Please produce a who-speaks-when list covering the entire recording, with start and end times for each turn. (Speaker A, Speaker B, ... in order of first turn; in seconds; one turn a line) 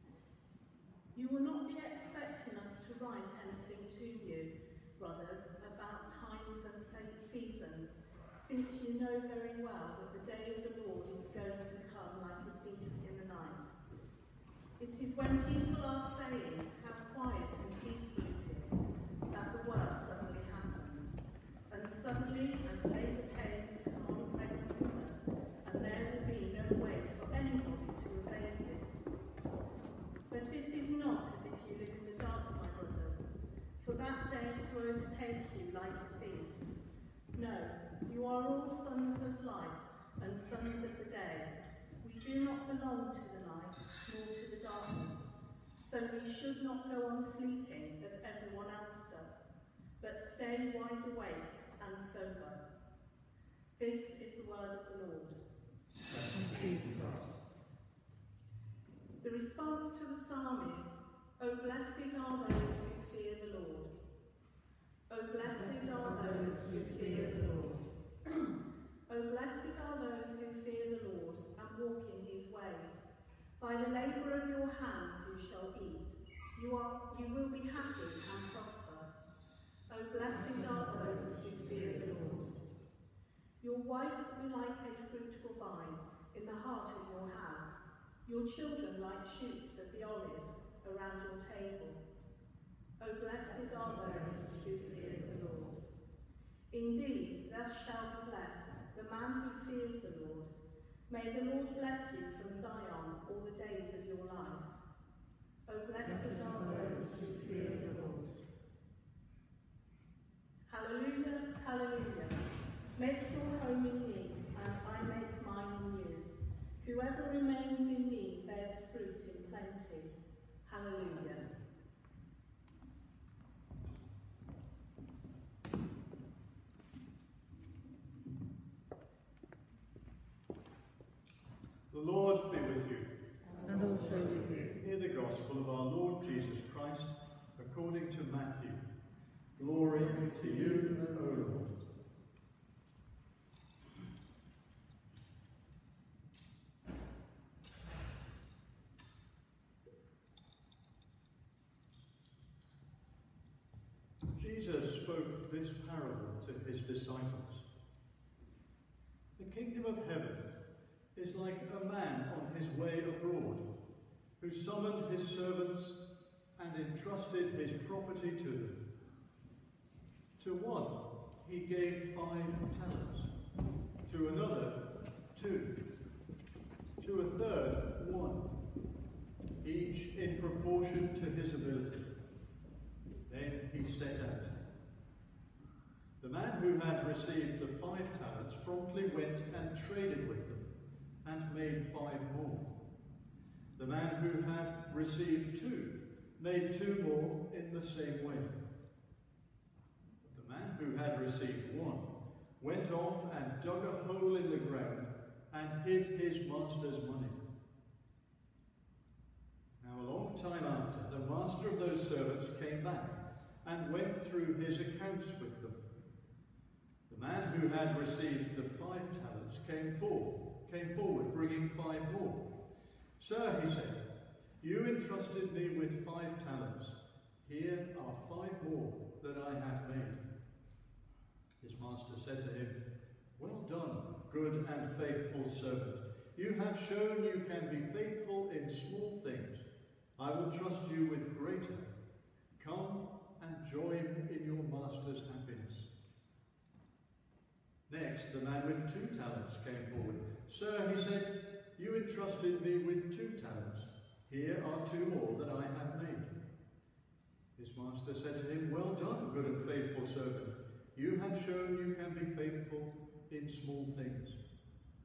Speaker A: 1.1-13.7
Speaker A: 14.8-18.8
Speaker A: 19.3-28.9
Speaker A: 30.3-36.6
Speaker A: 37.3-49.4
Speaker A: 50.0-52.6
Speaker A: 53.8-55.4
Speaker B: 56.1-57.3
Speaker A: 59.2-63.9
Speaker A: 65.1-67.5
Speaker B: 65.6-67.8
Speaker A: 69.1-73.1
Speaker A: 73.6-79.1
Speaker A: 79.9-82.6
Speaker A: 83.6-92.0
Speaker A: 93.0-95.8
Speaker A: 96.7-100.5
Speaker A: 101.1-104.7
Speaker A: 105.7-108.2
Speaker B: 106.7-108.2
Speaker A: 110.7-112.4
Speaker A: 112.9-116.2
Speaker A: 116.8-120.1
Speaker A: 120.6-121.5
Speaker C: 131.9-133.1
Speaker B: 133.6-134.7
Speaker C: 134.8-138.8
Speaker C: 139.6-141.7
Speaker C: 154.3-157.7
Speaker C: 159.4-160.5
Speaker C: 161.1-163.7
Speaker C: 164.4-166.0
Speaker C: 166.6-168.8
Speaker C: 170.4-173.3
Speaker C: 174.1-175.8
Speaker C: 177.0-178.5
Speaker C: 179.6-182.1
Speaker C: 183.2-184.6
Speaker C: 186.2-190.7
Speaker C: 191.2-192.7
Speaker C: 193.8-198.6
Speaker C: 200.2-202.1
Speaker C: 202.6-207.4
Speaker C: 209.8-215.8
Speaker C: 217.1-222.4
Speaker C: 223.2-224.0
Speaker C: 224.6-230.2
Speaker C: 231.6-232.8
Speaker C: 233.4-241.9
Speaker C: 242.6-245.9
Speaker C: 247.9-256.3
Speaker C: 257.6-264.4